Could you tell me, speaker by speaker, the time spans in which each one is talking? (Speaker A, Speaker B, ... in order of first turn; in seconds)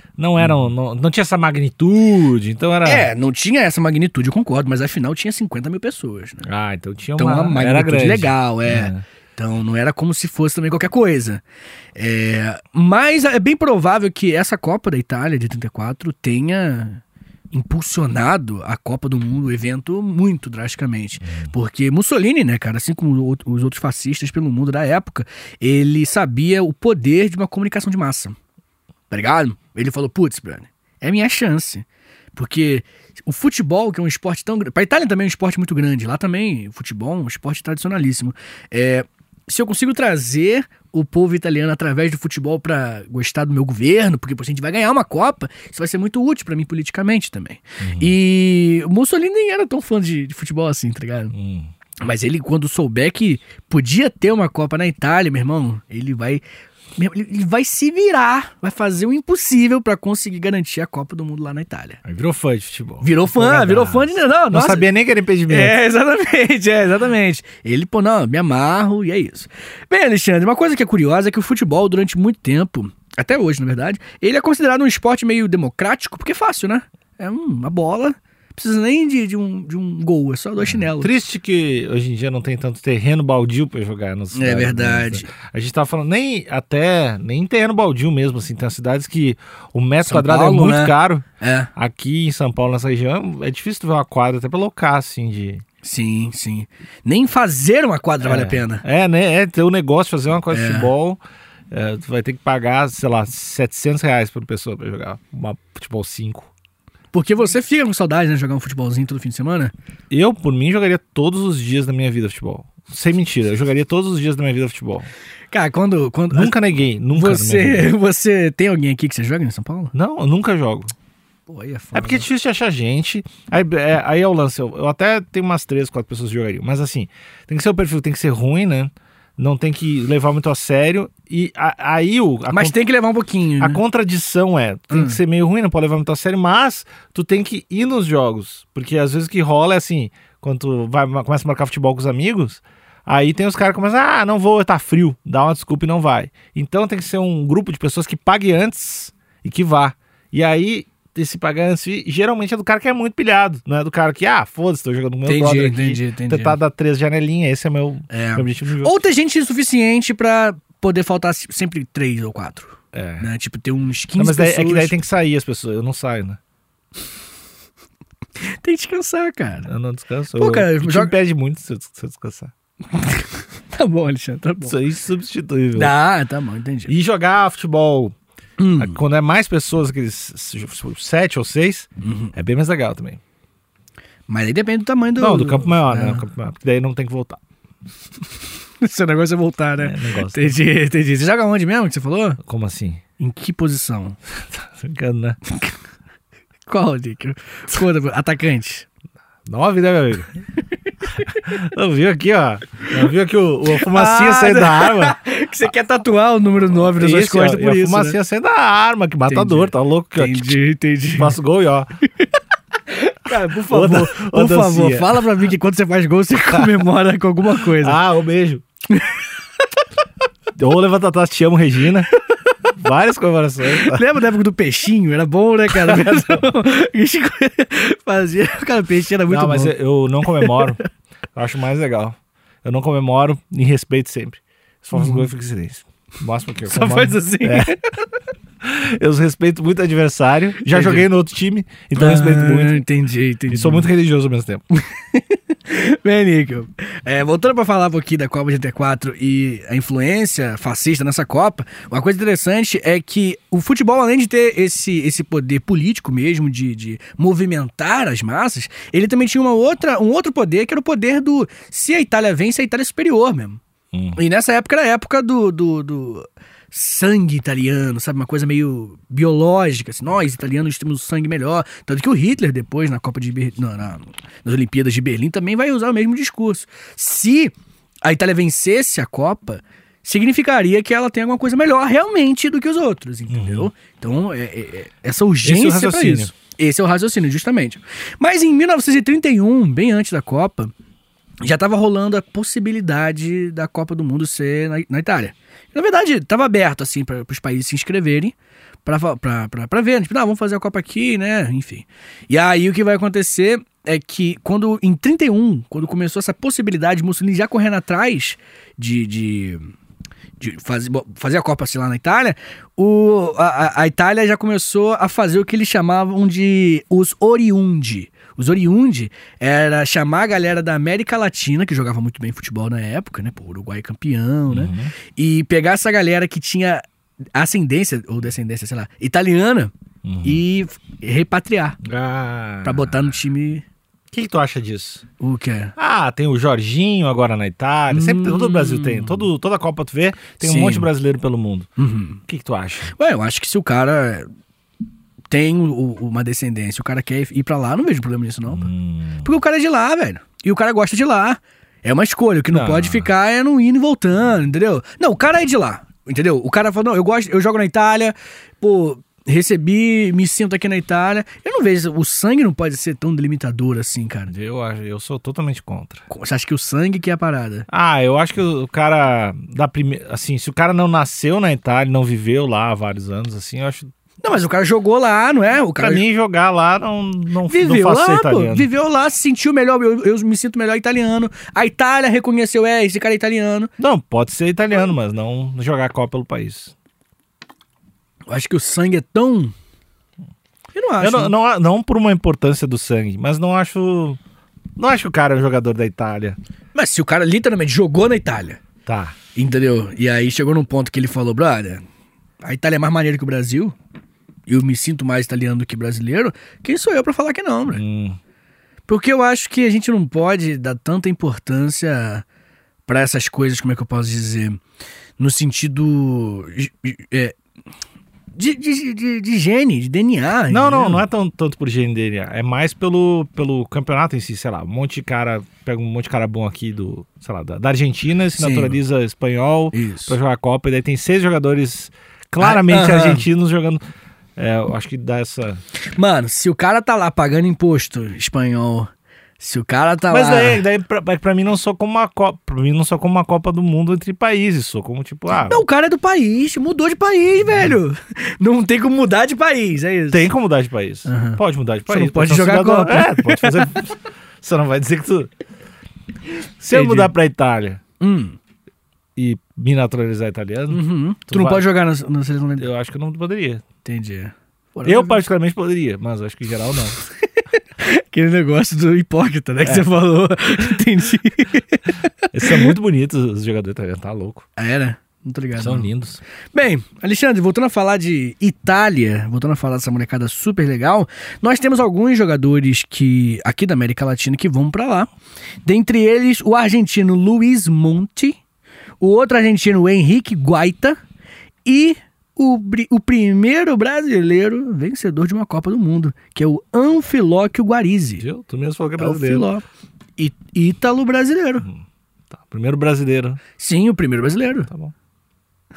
Speaker A: 0.2-3.1, 6.4-9.0, 47.8-48.1, 51.3-51.7, 62.0-65.7, 80.6-91.2, 91.8-95.6, 98.2-101.2, 101.7-106.5, 110.1-115.1, 116.3-117.9, 119.9-120.9, 121.9-132.8, 133.6-159.0, 162.9-163.3, 164.2-166.4, 169.6-172.5, 174.6-175.9, 176.9-178.1, 178.8-183.2, 185.2-187.4, 189.8-190.6, 192.4-193.0, 194.4-195.4, 199.5-200.4, 201.3-205.2, 206.8-210.6, 211.2-211.9, 213.7-215.2, 217.7-218.6, 220.6-222.1, 222.7-224.0, 225.9-226.2, 229.3-230.8, 231.3-237.7, 238.6-242.8, 243.5-244.6, 263.9-264.2, 283.3-283.7, 285.4-286.3, 324.5-324.9, 330.0-330.4, 331.8-333.1, 334.1-335.0, 335.8-341.7, 342.3-342.9, 348.5-349.3, 352.5-353.1, 364.3-366.0, 367.7-373.9, 375.8-378.7, 383.8-386.7, 391.0-394.2, 394.8-396.4, 398.9-399.1, 407.7-408.2, 420.5-433.8, 434.4-435.6, 440.1-445.6, 450.1-455.3, 456.6-457.8, 459.1-461.7, 462.6-463.6, 464.8-467.0, 472.3-474.4, 475.6-476.2, 498.2-499.5, 501.6-503.4
Speaker B: 2.8-6.4, 7.2-11.4, 11.9-28.4, 29.1-51.3, 52.0-56.4, 57.0-62.0, 63.0-64.9, 65.5-81.1, 84.3-85.3, 90.0-91.7, 95.8-98.8, 100.5-100.9, 107.1-109.7, 115.5-116.5, 117.1-119.9, 121.5-122.3, 132.5-133.8, 134.9-135.2, 155.2-156.6, 158.1-164.9, 168.4-169.7, 170.4-171.1, 172.9-174.8, 175.7-176.9, 178.6-179.0, 182.0-182.3, 184.3-186.2, 188.8-192.4, 193.2-194.2, 196.7-198.9, 201.2-201.5, 203.8-208.2, 209.3-211.3, 212.9-218.0, 218.9-219.3, 223.7-229.7, 230.3-230.6, 234.9-235.2, 236.7-237.9, 240.6-241.1, 241.9-243.9, 244.7-263.6, 264.1-290.7, 291.4-309.6, 310.4-326.8, 327.3-329.7, 330.2-331.8, 332.6-333.6, 335.2-335.7, 337.9-339.3, 340.4-340.9, 341.8-342.2, 342.9-344.3, 345.3-348.7, 349.2-364.3, 366.1-367.7, 374.2-376.0, 377.5-383.7, 388.3-389.5, 390.7-391.3, 396.7-398.6, 399.3-401.8, 402.4-403.8, 404.5-407.8, 408.9-412.2, 412.9-414.6, 415.2-417.4, 418.3-421.0, 428.3-428.8, 429.7-430.1, 432.4-433.2, 435.9-440.6, 445.4-450.3, 451.1-453.7, 456.7-457.1, 458.0-458.4, 460.7-462.7, 463.8-465.2, 467.8-472.7, 474.6-475.9, 476.5-485.1, 485.6-488.4, 489.0-491.0, 491.6-498.2, 499.0-499.6, 500.2-501.7, 503.6-504.7